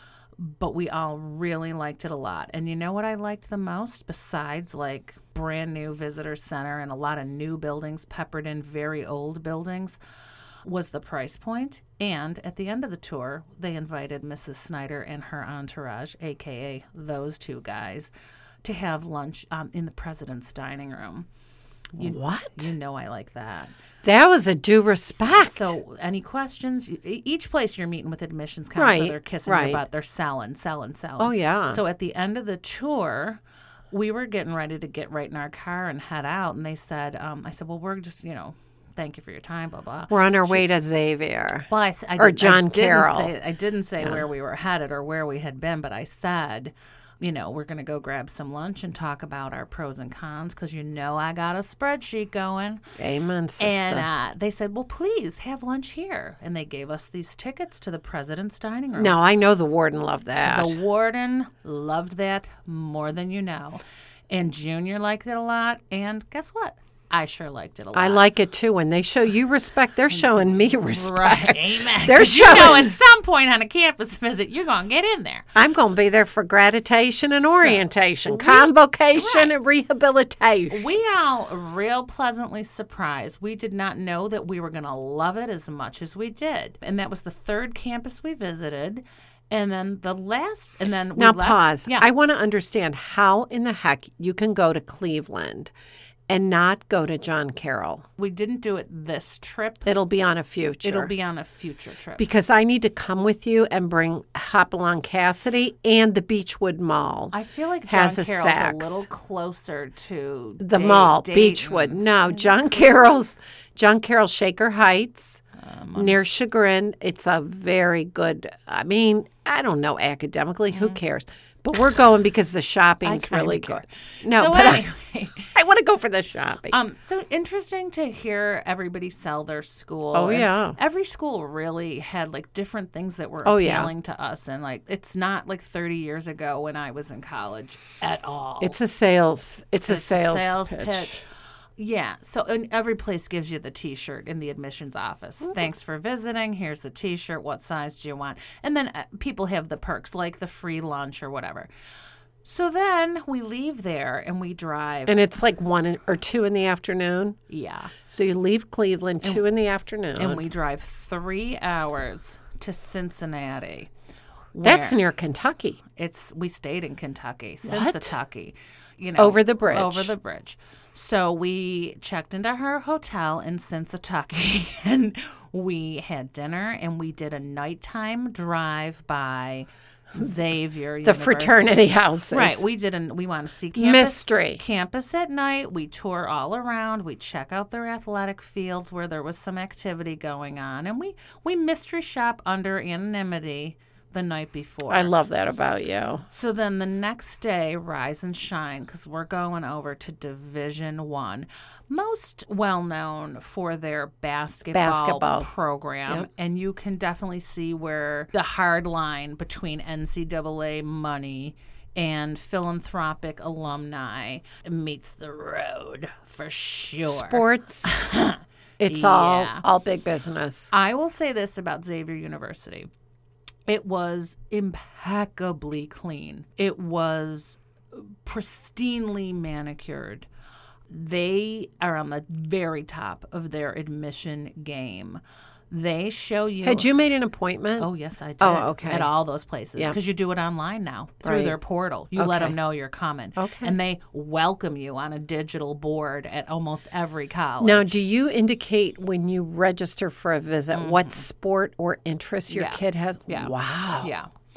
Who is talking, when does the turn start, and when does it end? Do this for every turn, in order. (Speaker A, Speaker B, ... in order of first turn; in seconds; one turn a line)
Speaker A: 0.4-10.0
Speaker A: 10.6-18.1
Speaker A: 18.6-21.3
Speaker A: 21.9-23.7
Speaker B: 22.0-22.7
Speaker B: 24.0-25.8
Speaker A: 25.3-33.4
Speaker B: 28.8-29.8
Speaker B: 31.2-31.8
Speaker A: 33.9-40.6
Speaker B: 40.1-43.3
Speaker A: 41.7-52.8
Speaker B: 53.0-54.1
Speaker A: 53.6-59.1
Speaker B: 59.0-60.8
Speaker A: 60.4-68.2
Speaker B: 67.9-72.9
Speaker A: 70.1-75.5
Speaker B: 75.5-80.8
Speaker A: 77.5-79.5
Speaker A: 80.7-92.1
Speaker B: 91.2-95.7
Speaker B: 96.3-98.0
Speaker A: 98.2-99.9
Speaker B: 99.8-101.1
Speaker A: 100.8-102.2
Speaker B: 102.2-107.3
Speaker A: 107.3-112.9
Speaker B: 107.9-109.0
Speaker B: 110.6-115.4
Speaker A: 115.6-116.2
Speaker B: 116.0-124.8
Speaker A: 120.7-121.0
Speaker A: 123.0-125.5
Speaker B: 125.5-126.8
Speaker A: 126.7-138.8
Speaker B: 130.1-130.8
Speaker B: 133.4-133.9
Speaker B: 138.6-141.2
Speaker A: 139.8-141.2
Speaker A: 141.8-151.7
Speaker A: 152.4-155.2
Speaker B: 155.1-157.4
Speaker A: 157.5-157.9
Speaker B: 158.1-160.4
Speaker A: 160.2-163.9
Speaker A: 164.5-165.0
Speaker B: 164.6-165.8
Speaker A: 165.9-181.8
Speaker B: 167.6-168.2
Speaker B: 169.2-170.1
Speaker B: 181.0-182.6
Speaker A: 182.3-195.1
Speaker B: 183.8-184.6
Speaker B: 194.9-196.2
Speaker A: 196.3-219.6
Speaker B: 204.7-205.5
Speaker B: 217.0-217.9
Speaker B: 218.8-220.7
Speaker A: 220.7-222.9
Speaker A: 223.7-230.3
Speaker A: 230.9-236.9
Speaker B: 236.6-237.9
Speaker A: 237.8-248.0
Speaker B: 238.4-239.1
Speaker B: 241.2-241.6
Speaker B: 242.2-242.5
Speaker B: 243.4-243.7
Speaker B: 247.6-254.1
Speaker A: 250.7-251.2
Speaker A: 252.5-254.3